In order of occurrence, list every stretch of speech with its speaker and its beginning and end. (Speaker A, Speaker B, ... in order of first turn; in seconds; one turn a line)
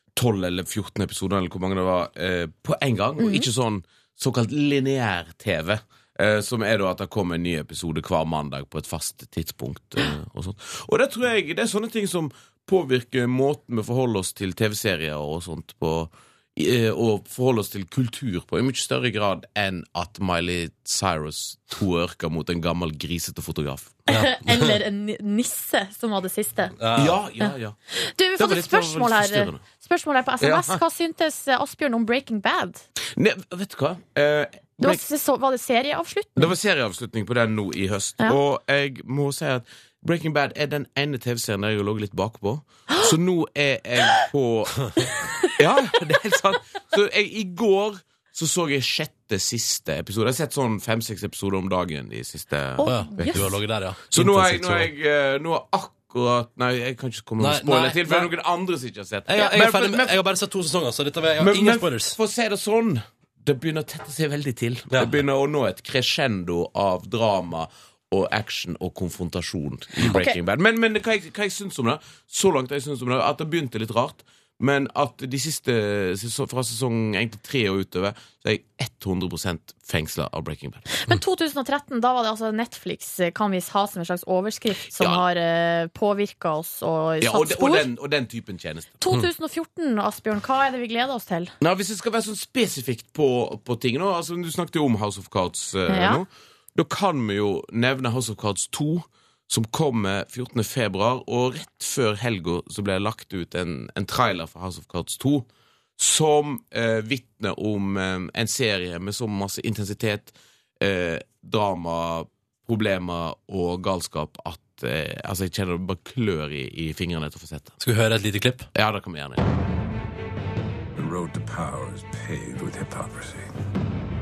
Speaker A: 0.2-24.0
Speaker B: 3.2-3.5
Speaker B: 24.1-26.8
Speaker C: 24.1-24.7
Speaker C: 26.8-27.2
Speaker A: 26.9-27.8
Speaker B: 27.4-32.8
Speaker A: 28.4-29.6
Speaker A: 30.4-30.8
Speaker A: 33.1-35.0
Speaker B: 34.8-36.5
Speaker A: 36.4-44.9
Speaker A: 45.6-53.6
Speaker B: 52.8-53.4
Speaker C: 52.8-54.9
Speaker A: 54.1-60.2
Speaker C: 57.4-58.3
Speaker C: 59.3-62.2
Speaker A: 61.4-80.8
Speaker C: 64.9-65.2
Speaker B: 70.0-70.4
Speaker B: 80.9-87.9
Speaker A: 85.0-85.2
Speaker A: 87.2-89.0
Speaker B: 89.0-91.5
Speaker A: 91.6-117.8
Speaker B: 95.9-96.2
Speaker C: 117.8-118.7
Speaker A: 118.7-119.4
Speaker D: 120.9-123.5